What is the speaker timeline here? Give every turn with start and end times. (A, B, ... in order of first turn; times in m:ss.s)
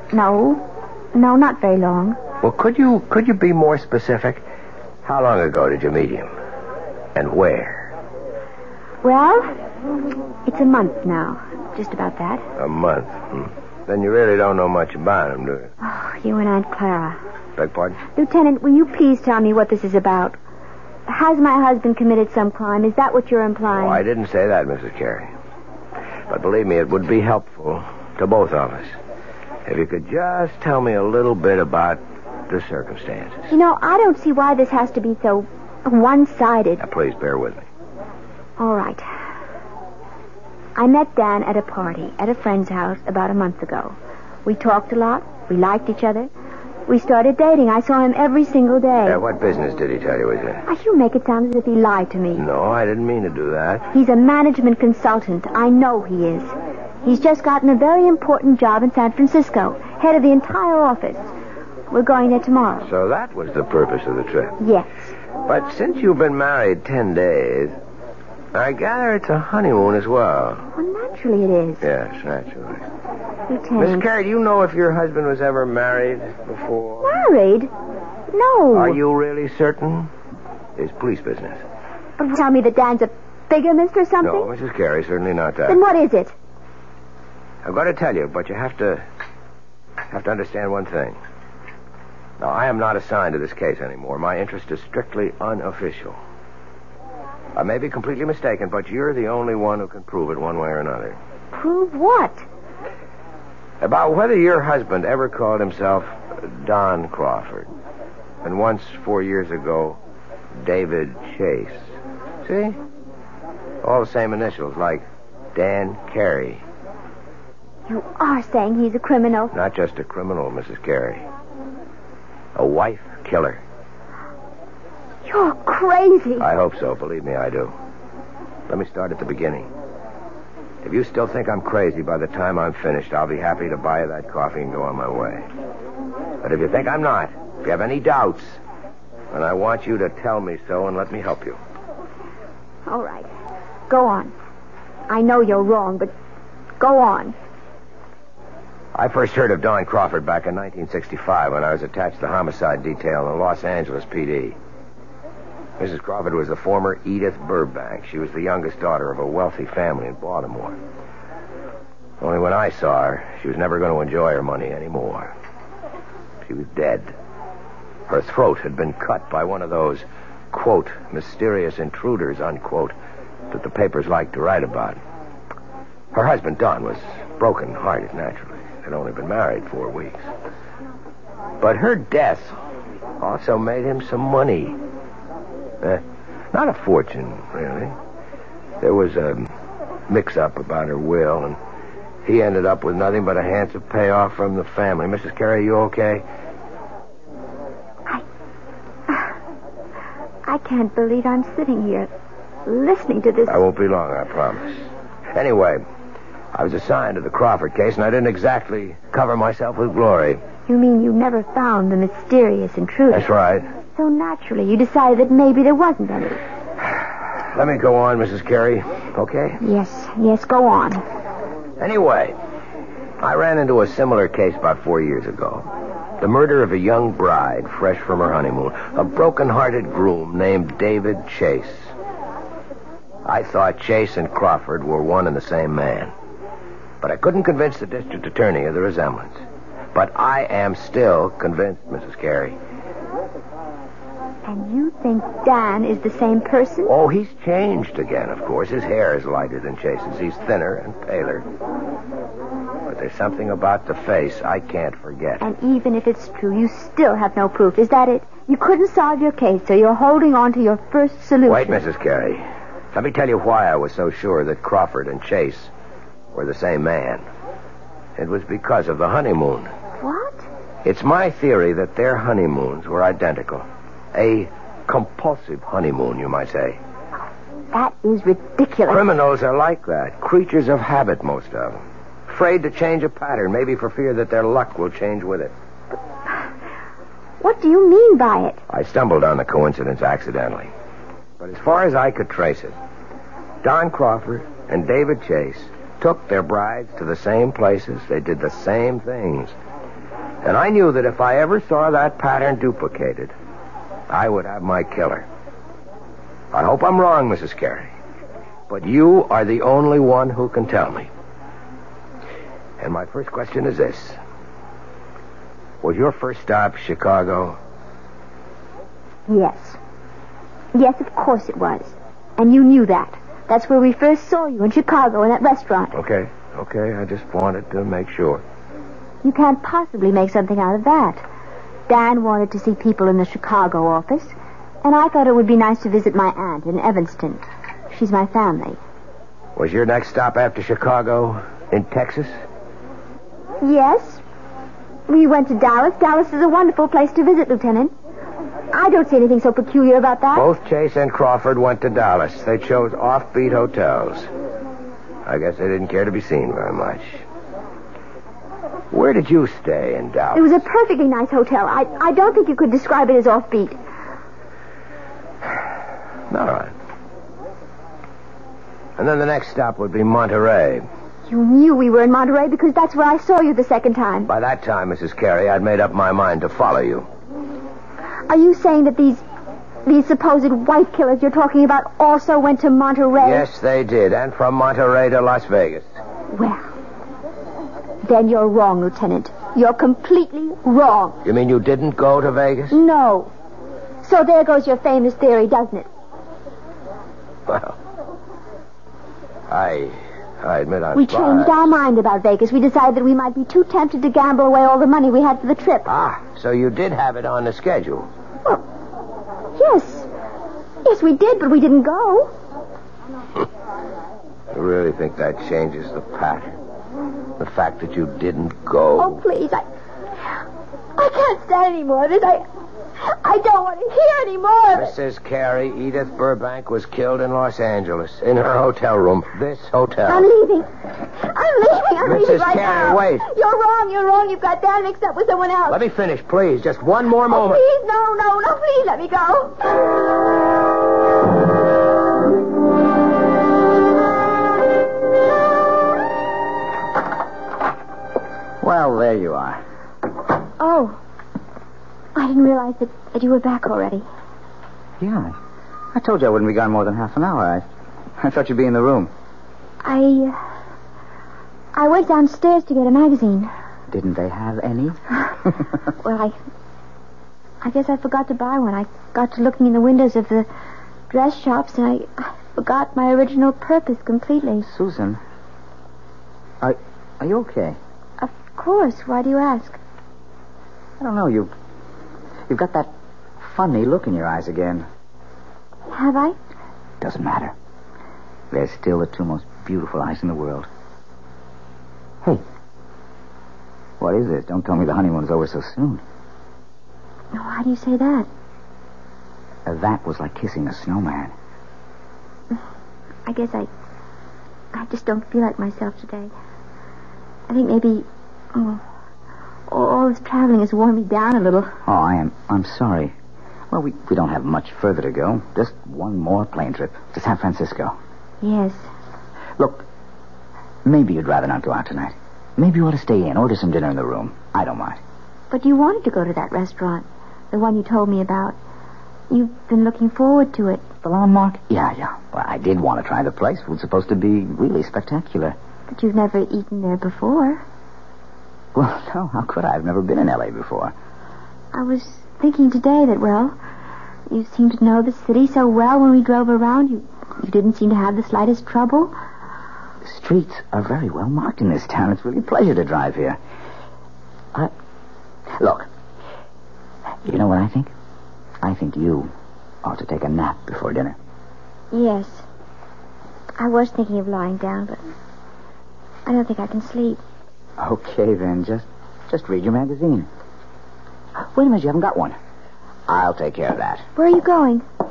0:00.1-0:02.2 A
0:02.4-0:04.4 B
0:05.0-0:06.3 B
0:07.2-0:07.9 B
0:09.0-0:09.5 A
0:10.4-0:12.4 A
0:12.6-0:15.7 B
0:15.8-0:17.2 A
0:17.6-0:18.0 B
0:18.2-0:20.4 A
0:21.1-0:24.0 A
0:23.7-0:25.3 B
0:26.3-0:29.0 B
0:29.7-0:33.4 B
0:33.5-0:36.8 A
0:36.8-0:37.7 B
0:38.6-0:39.1 A
0:40.8-0:46.3 A
0:46.9-0:49.2 A
0:49.0-0:50.6 B
0:50.7-0:52.4 A
0:52.4-0:53.9 B
0:53.9-1:01.3 A
1:01.9-1:02.9 A
1:02.8-1:04.6 B
1:04.6-1:05.1 A
1:05.5-1:07.8 B
1:08.5-1:10.6 B
1:10.8-1:11.8 A
1:11.8-1:12.8 B
1:13.5-1:14.1 A
1:13.8-1:17.1 B
1:17.0-1:17.7 A
1:18.3-1:19.0 A
1:18.7-1:20.1 B
1:20.8-1:21.6 B
1:22.2-1:24.5 A
1:24.2-1:25.8 B
1:25.7-1:26.4 A
1:27.6-1:29.0 B
1:30.1-1:31.2 B
1:32.4-1:36.2 B
1:37.6-1:41.2 B
1:41.5-1:42.5 A
1:43.8-1:47.7 B
1:48.4-1:50.0 B
1:50.6-1:51.8 B
1:52.4-1:52.8 B
1:53.8-1:56.6 B
1:57.9-1:59.5 A
1:59.5-2:01.2 B
2:02.6-2:03.6 B
2:05.2-2:06.5 A
2:06.4-2:07.7 B
2:08.7-2:09.7 B
2:10.8-2:15.5 B
2:16.4-2:18.6 B
2:19.3-2:21.6 B
2:22.9-2:23.3 A
2:23.9-2:24.3 A
2:25.1-2:26.1 A
2:26.8-2:27.4 A
2:28.9-2:34.6 B
2:35.8-2:40.8 B
2:42.2-2:45.3 B
2:46.4-2:47.1 B
2:48.1-2:52.9 B
2:53.5-2:55.0 B
2:56.1-3:00.3 B
3:01.6-3:02.6 B
3:03.2-3:04.8 B
3:05.8-3:08.0 B
3:08.8-3:09.5 B
3:10.1-3:11.6 B
3:12.2-3:16.2 B
3:20.4-3:22.1 A
3:22.7-3:23.6 A
3:23.5-3:24.8 B
3:25.3-3:25.8 B
3:26.5-3:30.4 B
3:30.7-3:33.3 A
3:33.1-3:33.7 B
3:34.0-3:36.4 A
3:37.5-3:39.6 B
3:39.6-3:41.0 A
3:41.8-3:42.4 B
3:43.2-3:45.7 B
3:46.2-3:51.9 B
3:53.2-3:56.1 B
3:57.0-3:59.4 B
3:59.9-4:02.6 B
4:04.5-4:06.9 A
4:06.9-4:11.4 B
4:12.9-4:15.4 B
4:15.4-4:21.8 A
4:21.5-4:25.7 B
4:26.3-4:27.2 B
4:28.2-4:29.7 B
4:30.0-4:30.5 A
4:30.8-4:36.8 B
4:37.7-4:39.0 A
4:38.9-4:45.5 B
4:47.4-4:48.6 A
4:48.7-4:50.7 B
4:51.4-4:52.8 B
4:53.6-4:59.5 B
5:00.4-5:03.3 B
5:04.1-5:05.3 B
5:06.5-5:07.9 B
5:08.7-5:11.1 B
5:12.8-5:14.2 B
5:15.8-5:17.6 B
5:19.3-5:19.8 A
5:20.7-5:26.0 A
5:25.9-5:28.4 B
5:29.2-5:31.2 A
5:31.9-5:38.8 A
5:39.6-5:42.4 B
5:43.6-5:44.2 A
5:45.1-5:47.9 A
5:48.7-5:50.5 A
5:50.3-5:54.3 B
5:55.3-5:57.2 B
5:58.9-6:00.6 B
6:00.3-6:03.8 A
6:06.3-6:06.7 B
6:09.0-6:10.8 B
6:11.3-6:14.3 A
6:14.3-6:17.1 B
6:18.3-6:19.2 A
6:19.9-6:23.4 A
6:23.2-6:25.9 B
6:26.3-6:26.7 A
6:28.0-6:31.2 A
6:31.2-6:32.8 B
6:32.7-6:33.3 A
6:34.0-6:35.9 A
6:37.5-6:37.8 B
6:39.5-6:41.7 B
6:41.0-6:45.9 A
6:45.9-6:48.1 B
6:49.6-6:50.1 A
6:50.8-6:52.3 A
6:54.5-6:56.6 B
6:57.4-6:59.2 B
6:59.0-6:59.6 A
7:01.0-7:02.4 A
7:03.0-7:05.0 A
7:04.7-7:10.3 B
7:10.1-7:15.8 A
7:12.0-7:13.3 B
7:15.7-7:17.6 B
7:17.3-7:19.6 A
7:28.6-7:29.6 C
7:30.6-7:31.0 A
7:32.2-7:34.1 A
7:35.0-7:35.4 C
7:35.9-7:37.6 C
7:38.2-7:39.1 C
7:39.8-7:40.4 A
7:41.7-7:43.5 A
7:43.9-7:45.0 C
7:46.0-7:46.4 A
7:47.6-7:50.5 A
7:51.1-7:54.7 A
7:54.6-7:55.2 C
7:56.6-7:57.8 C
7:58.2-7:59.8 A
8:01.0-8:01.5 C
8:02.5-8:04.9 C
8:05.9-8:06.4 A
8:07.0-8:07.5 C
8:08.5-8:10.7 C
8:14.0-8:16.0 C
8:17.3-8:18.3 A
8:19.7-8:21.3 C
8:23.3-8:23.7 A
8:24.7-8:26.3 A
8:27.5-8:28.8 A
8:29.7-8:31.8 A
8:31.8-8:33.1 C
8:33.7-8:38.0 C
8:38.4-8:38.9 A
8:39.6-8:39.9 C
8:40.8-8:45.0 C
8:45.5-8:48.6 A
8:49.3-8:50.8 A
8:51.0-8:55.6 C
8:55.9-8:57.6 A
8:58.8-9:00.9 C
9:01.7-9:03.6 A
9:04.3-9:09.1 A
9:10.0-9:13.4 C
9:15.5-9:15.9 C
9:17.3-9:17.9 C
9:18.6-9:19.3 C
9:19.8-9:21.2 C
9:21.9-9:22.5 A
9:23.6-9:25.0 A
9:26.3-9:27.2 A
9:27.8-9:30.3 C
9:31.4-9:32.4 C
9:33.1-9:34.1 C
9:34.2-9:34.8 A